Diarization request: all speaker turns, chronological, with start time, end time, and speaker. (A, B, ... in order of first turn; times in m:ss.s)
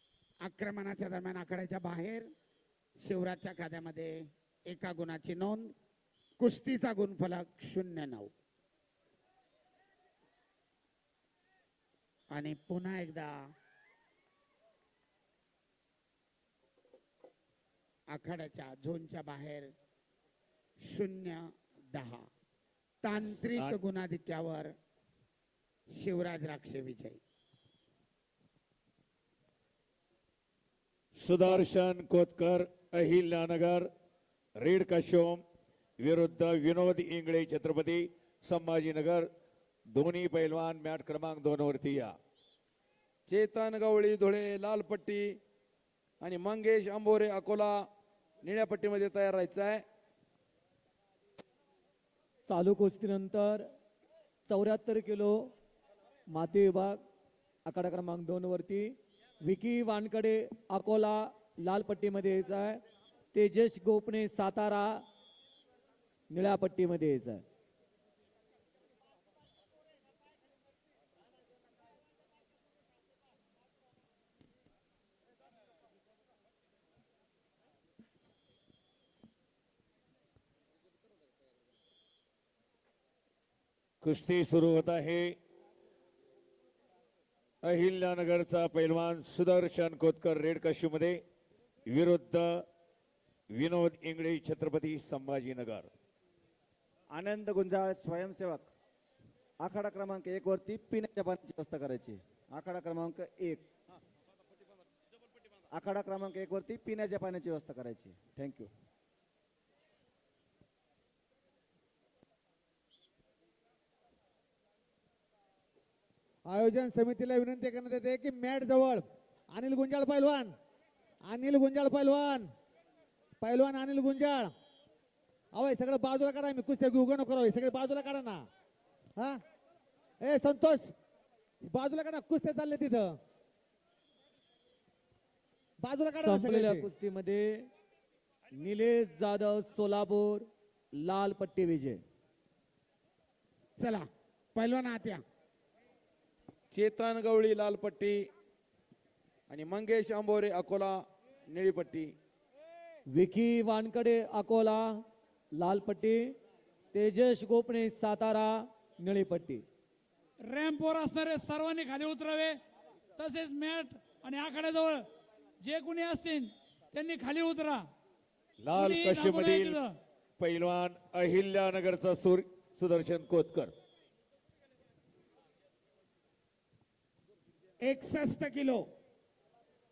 0:00.4-0:02.3 A
0:03.0-0:05.7 A
0:06.4-0:08.3 A
0:12.3-0:13.3 A
0:18.1-0:19.7 A
0:20.8-0:22.2 A
0:23.0-0:24.7 A
0:23.2-0:23.8 B
0:26.0-0:27.2 A
0:31.2-0:33.9 B
0:34.6-0:35.4 B
0:36.0-0:39.3 B
0:39.9-0:42.1 B
0:43.3-0:45.2 C
0:46.2-0:47.7 C
0:48.4-0:49.8 C
0:52.5-0:53.6 D
0:54.5-0:55.3 D
0:56.3-0:57.0 D
0:57.6-1:02.8 D
1:03.3-1:05.0 D
1:06.3-1:07.4 D
1:24.0-1:25.3 B
1:27.6-1:31.2 B
1:31.9-1:32.6 B
1:33.5-1:35.9 B
1:37.1-1:38.7 E
1:39.6-1:43.7 E
1:45.7-1:48.7 E
1:56.5-2:00.5 F
2:01.2-2:02.5 F
2:03.4-2:04.5 F
2:05.5-2:08.4 F
2:10.2-2:10.9 F
2:11.6-2:13.2 F
2:15.8-2:16.9 F
2:16.1-2:17.7 D
2:18.5-2:22.0 D
2:23.8-2:25.2 A
2:26.7-2:28.2 C
2:29.5-2:31.0 C
2:31.5-2:32.1 C
2:33.1-2:35.0 D
2:35.5-2:36.3 D
2:36.9-2:39.6 D
2:40.4-2:42.6 G
2:43.2-2:45.1 G
2:45.6-2:47.8 G
2:48.6-2:49.8 B
2:48.7-2:49.9 G
2:50.4-2:53.7 B
2:57.8-2:58.8 A